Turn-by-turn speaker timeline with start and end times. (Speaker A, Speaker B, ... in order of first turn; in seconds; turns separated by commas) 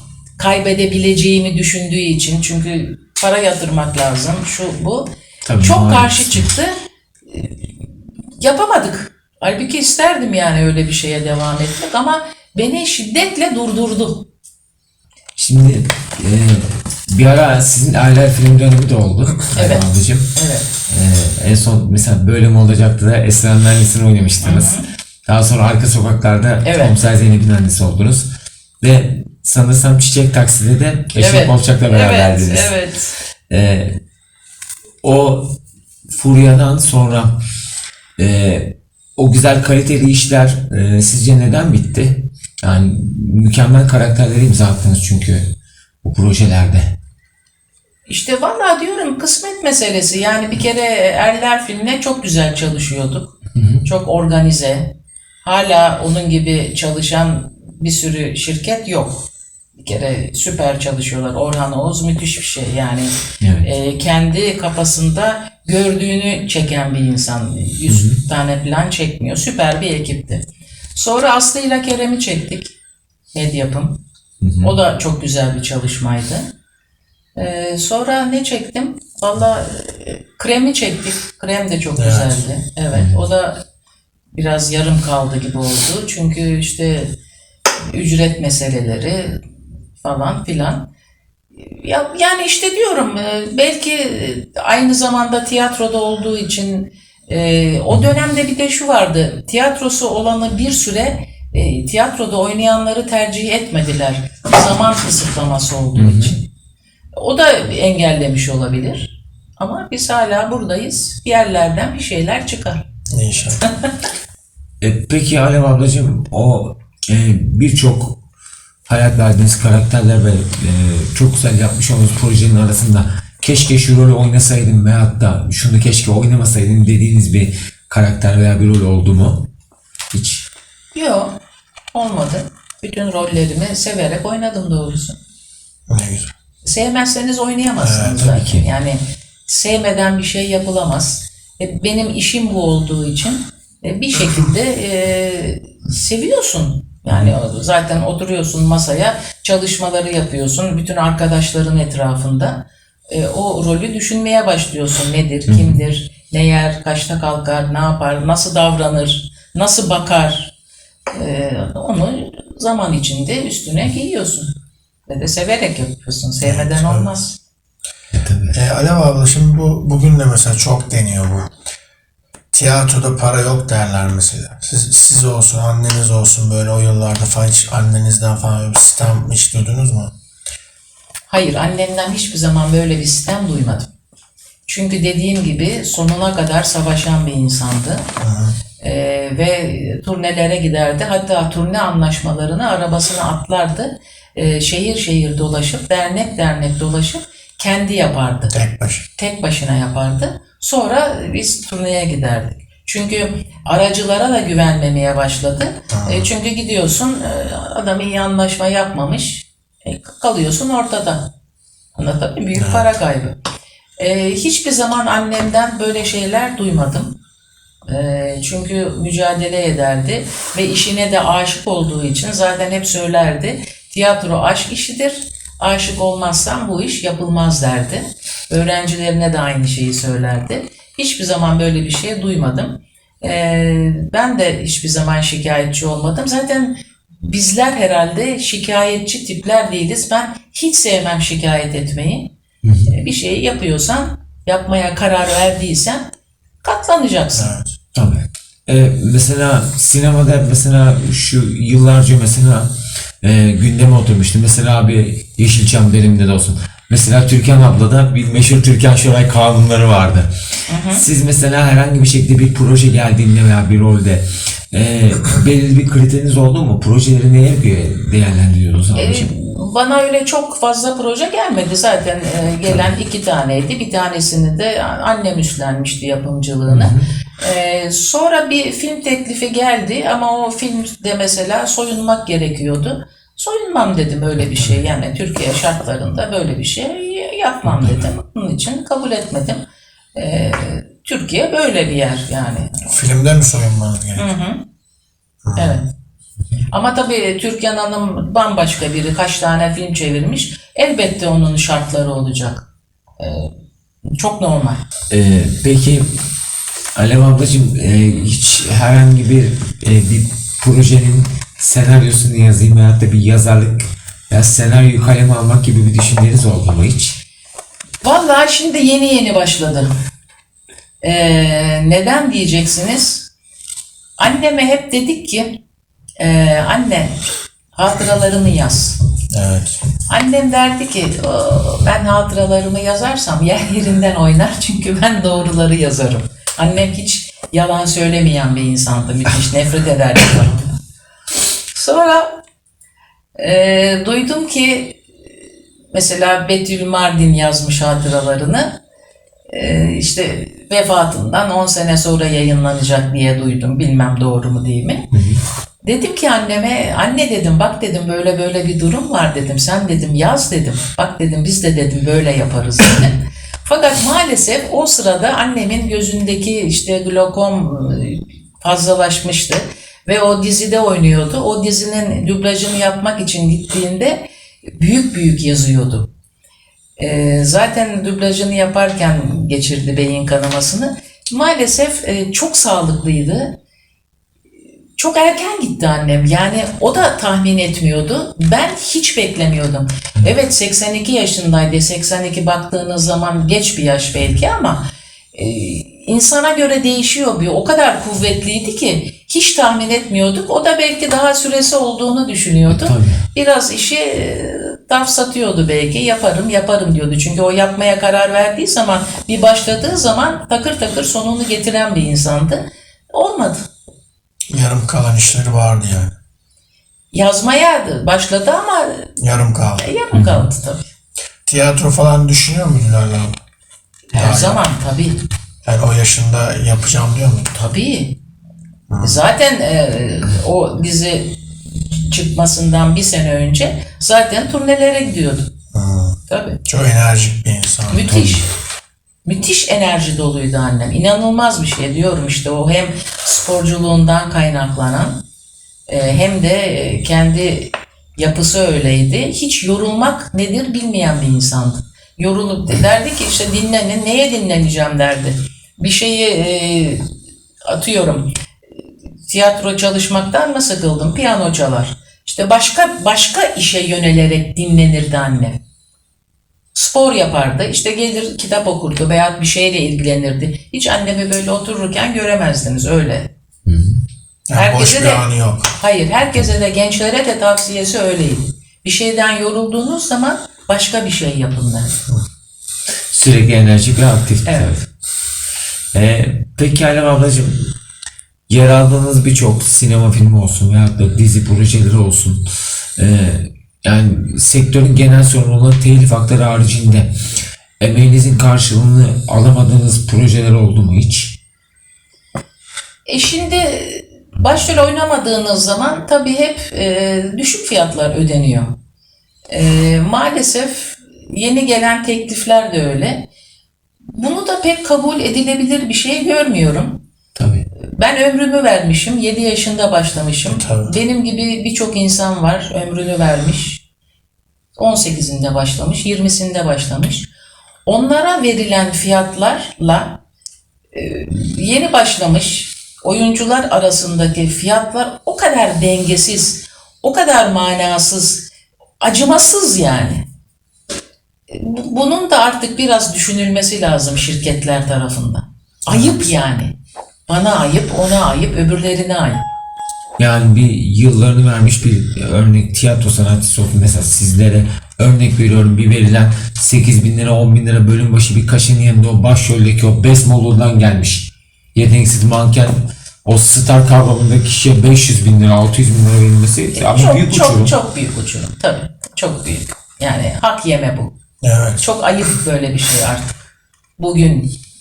Speaker A: 0.4-14.3, Speaker B: 5.5-6.5, Speaker B: 15.4-20.3, Speaker A: 19.5-20.7, Speaker B: 20.9-28.3, Speaker A: 24.4-24.9, Speaker A: 26.6-27.0, Speaker B: 28.8-32.7, Speaker A: 31.1-33.2, Speaker B: 33.5-34.0, Speaker B: 35.0-35.6, Speaker B: 36.1-37.4, Speaker B: 38.2-45.5, Speaker B: 46.0-46.9, Speaker A: 48.1-54.9, Speaker B: 53.5-53.9, Speaker A: 55.4-59.3, Speaker A: 59.8-70.4, Speaker B: 63.4-63.7, Speaker B: 67.9-68.2, Speaker A: 70.9-72.7, Speaker A: 73.3-74.0, Speaker B: 74.4-74.7, Speaker A: 74.6-76.5, Speaker A: 77.4-83.6, Speaker C: 82.0-82.4, Speaker B: 82.9-83.2, Speaker A: 84.3-87.1, Speaker A: 87.9-89.4, Speaker A: 90.0-90.9, Speaker A: 91.6-106.5, Speaker B: 106.0-106.3, Speaker A: 107.2-112.9, Speaker C: 113.1-113.6, Speaker B: 114.8-118.2, Speaker B: 118.9-129.5, Speaker B: 130.1-130.5, Speaker A: 130.9-131.3, Speaker A: 131.9-135.2, Speaker C: 135.9-136.3, Speaker A: 136.6-160.5, Speaker C: 137.8-138.2, Speaker B: 138.1-138.6, Speaker B: 155.5-155.8, Speaker A: 161.1-164.5, Speaker A: 165.1-167.4, Speaker C: 166.4-167.1, Speaker B: 168.1-168.6, Speaker C: 168.5-171.5, Speaker C: 172.5-180.1, Speaker A: 181.3-183.9, Speaker A: 184.7-188.1, Speaker C: 188.2-188.6, Speaker A: 188.8-198.5, Speaker C: 198.5-199.0, Speaker A: 199.2-211.3, Speaker C: 205.9-206.3, Speaker A: 211.9-213.3, Speaker C: 212.6-212.9, Speaker A: 214.0-217.2, Speaker A: 217.9-242.3, Speaker B: 242.6-242.9, Speaker A: 242.9-246.1, Speaker A: 246.6-247.6, Speaker C: 247.4-247.7, Speaker B: 247.9-252.7, Speaker B: 253.2-260.3, Speaker A: 260.7-261.1, Speaker B: 260.9-269.3, Speaker A: 268.9-289.6, Speaker B: 276.6-277.1, Speaker A: 290.1-292.8, Speaker C: 292.9-294.3, Speaker A: 294.1-294.6, Speaker C: 295.4-295.8, Speaker A: 295.6-295.9, Speaker A: 296.7-302.6, Speaker A: 303.2-303.5, Speaker A: 304.2-304.8, Speaker B: 305.1-306.1, Speaker B: 306.9-317.2, Speaker A: 318.0-319.9, Speaker A: 321.0-323.3, Speaker A: 324.2-325.6, Speaker A: 326.2-327.2, Speaker A: 327.7-329.0, Speaker C: 329.3-329.8, Speaker A: 330.1-340.8, Speaker A: 341.7-342.4, Speaker A: 343.4-345.0, Speaker A: 345.9-348.8, Speaker A: 349.5-355.1, Speaker B: 355.1-355.4, Speaker A: 355.8-376.1, Speaker A: 377.0-383.6, Speaker A: 385.0-413.7, Speaker B: 402.7-403.2, Speaker C: 414.5-416.1, Speaker A: 417.1-419.1, Speaker C: 419.2-419.9, Speaker A: 419.8-420.8, Speaker B: 420.1-420.5, Speaker C: 421.4-423.4, Speaker A: 424.1-425.2, Speaker C: 424.1-424.6, Speaker C: 425.6-427.7, Speaker A: 427.6-428.2, Speaker C: 428.9-429.2, Speaker A: 429.0-431.4, Speaker A: 431.9-435.5, Speaker C: 435.7-438.2, Speaker A: 436.3-436.6, Speaker A: 437.9-438.5, Speaker B: 438.1-438.4, Speaker A: 439.2-445.2, Speaker A: 445.9-457.1, Speaker A: 457.6-458.3, Speaker A: 459.2-465.6, Speaker A: 466.7-473.3, Speaker B: 473.6-474.0, Speaker C: 474.5-475.7, Speaker A: 474.6-481.9, Speaker B: 483.1-484.8, Speaker A: 484.4-484.8, Speaker B: 485.9-487.7, Speaker B: 488.5-492.4, Speaker B: 493.0-497.1, Speaker B: 497.8-501.4, Speaker A: 503.1-508.8, Speaker A: 509.5-513.3, Speaker A: 514.1-517.0, Speaker B: 517.4-517.6, Speaker A: 517.8-523.8, Speaker C: 520.5-520.9, Speaker A: 524.8-527.3, Speaker A: 527.9-530.2, Speaker A: 530.9-538.5, Speaker A: 539.0-540.2, Speaker A: 541.5-546.7, Speaker A: 547.3-549.4, Speaker B: 550.2-567.7, Speaker A: 566.7-571.1, Speaker C: 571.4-571.9, Speaker A: 571.8-573.4, Speaker A: 574.0-574.5